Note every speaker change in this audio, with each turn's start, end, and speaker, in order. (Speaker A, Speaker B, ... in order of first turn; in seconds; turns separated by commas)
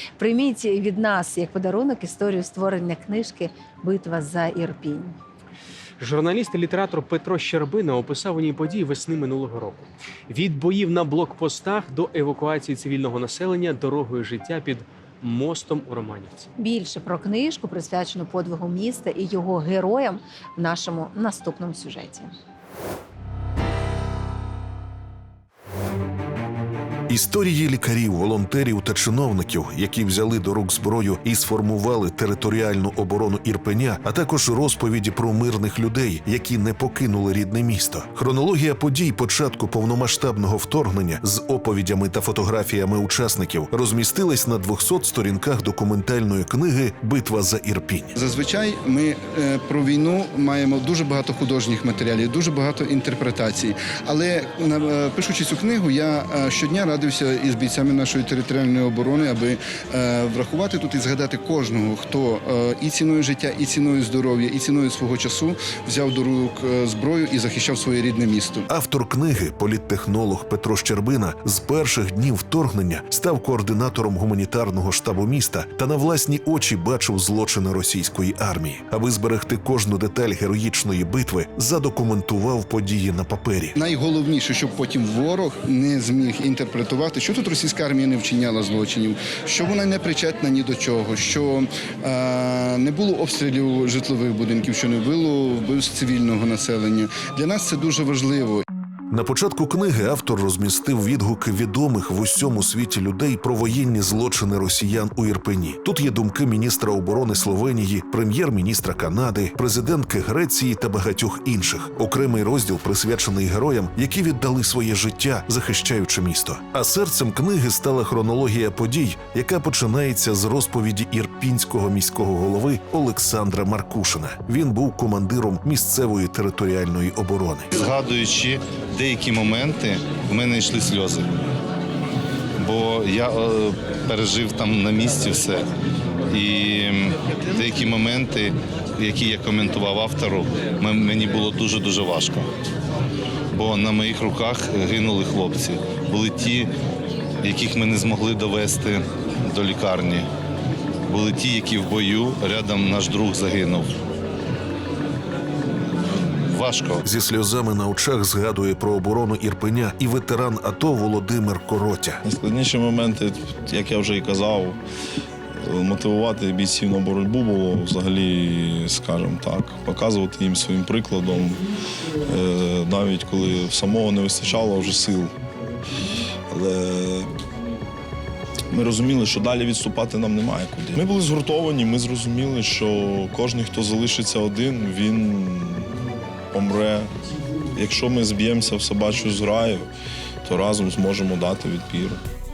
Speaker A: 0.2-5.2, Speaker B: 6.0-16.5, Speaker A: 16.6-22.3, Speaker C: 27.1-48.2, Speaker D: 48.2-68.7, Speaker C: 68.7-83.8, Speaker D: 83.8-98.7, Speaker C: 99.1-127.7, Speaker E: 127.8-131.3, Speaker E: 132.6-135.7, Speaker E: 136.3-142.5, Speaker E: 143.5-146.7, Speaker E: 147.4-150.3, Speaker E: 151.1-153.9, Speaker E: 156.5-157.0, Speaker C: 157.0-162.2, Speaker F: 162.2-164.8, Speaker F: 165.6-171.6, Speaker F: 172.3-175.3, Speaker F: 176.5-177.3, Speaker F: 178.7-185.9, Speaker F: 186.5-187.1, Speaker F: 187.8-189.9, Speaker F: 190.4-192.2